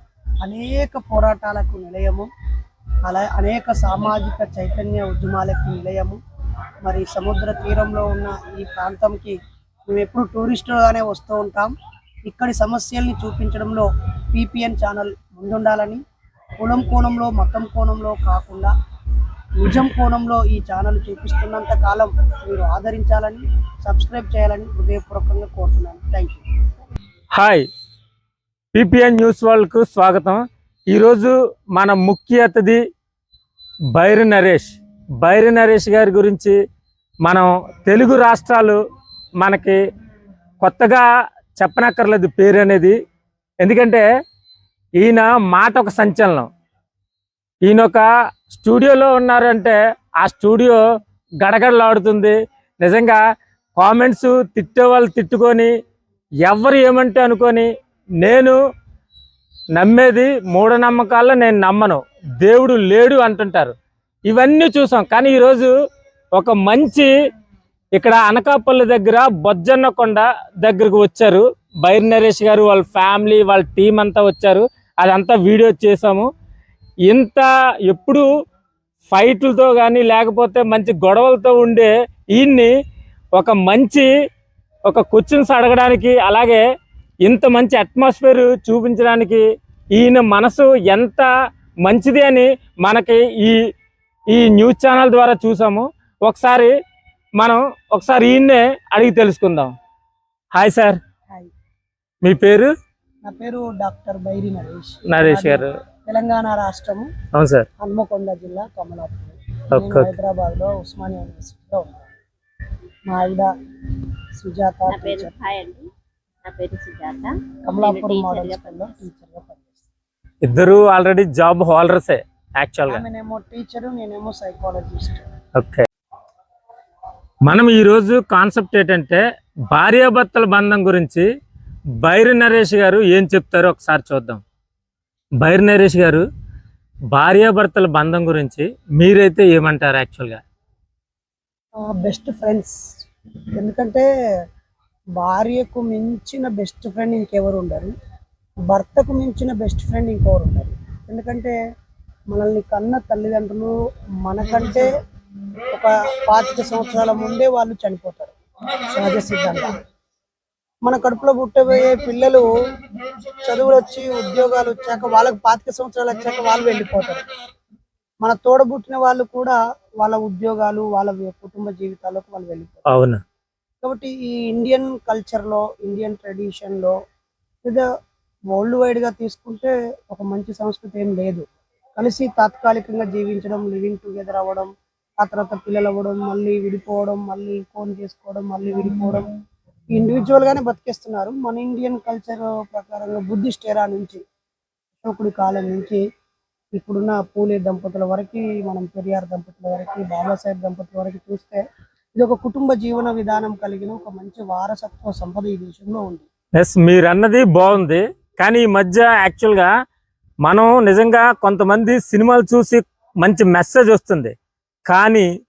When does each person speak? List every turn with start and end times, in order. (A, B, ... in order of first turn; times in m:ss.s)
0:00.4-0:02.3 A
0:03.0-0:06.2 A
0:06.8-0:09.4 A
0:09.9-0:11.7 A
0:12.2-0:16.0 A
0:16.6-0:18.7 A
0:19.6-0:26.4 A
0:27.3-0:27.6 B
0:28.7-0:32.8 B
0:33.9-0:36.6 B
0:37.2-0:38.8 B
0:39.4-0:39.8 B
0:40.6-0:41.0 B
0:41.6-0:43.0 B
0:43.6-0:44.0 B
0:45.0-0:46.5 B
0:47.6-0:50.8 B
0:51.4-0:53.2 B
0:53.8-0:55.7 B
0:56.4-0:57.7 B
0:58.2-0:58.6 B
0:59.8-1:03.7 B
1:04.3-1:05.7 B
1:06.3-1:07.1 B
1:07.9-1:16.3 B
1:17.1-1:18.2 B
1:19.1-1:22.7 B
1:23.3-1:24.1 B
1:24.9-1:26.6 B
1:27.2-1:29.4 B
1:29.9-1:31.3 B
1:31.8-1:33.6 B
1:34.3-1:36.7 B
1:37.4-1:39.7 B
1:40.5-1:41.0 B
1:42.2-1:42.7 B
1:43.2-1:47.1 A
1:45.1-1:45.7 B
1:47.3-1:47.7 B
1:47.8-1:52.1 A
1:49.7-1:50.2 B
1:53.1-1:53.5 A
1:54.4-1:55.3 A
1:54.9-1:55.8 C
1:56.4-1:59.0 C
1:57.6-1:59.8 A
2:00.4-2:03.0 B
2:02.9-2:05.2 A
2:05.6-2:05.8 B
2:07.4-2:11.3 B
2:12.0-2:14.4 B
2:15.4-2:16.2 B
2:17.1-2:20.4 B
2:21.8-2:22.8 A
2:23.6-2:24.0 A
2:25.2-2:27.9 A
2:28.7-2:31.6 A
2:32.3-2:33.7 A
2:34.2-2:34.9 A
2:35.7-2:38.3 A
2:38.9-2:39.8 A
2:40.8-2:42.5 A
2:43.4-2:47.2 A
2:48.2-2:52.8 A
2:52.9-2:53.2 B
2:53.8-2:57.0 A
2:58.5-3:01.4 A
3:02.0-3:04.7 A
3:05.2-3:09.2 A
3:09.9-3:14.2 A
3:15.0-3:16.0 A
3:16.8-3:21.6 A
3:22.2-3:26.2 A
3:26.6-3:29.7 B
3:30.4-3:34.3 B
3:34.9-3:35.3 B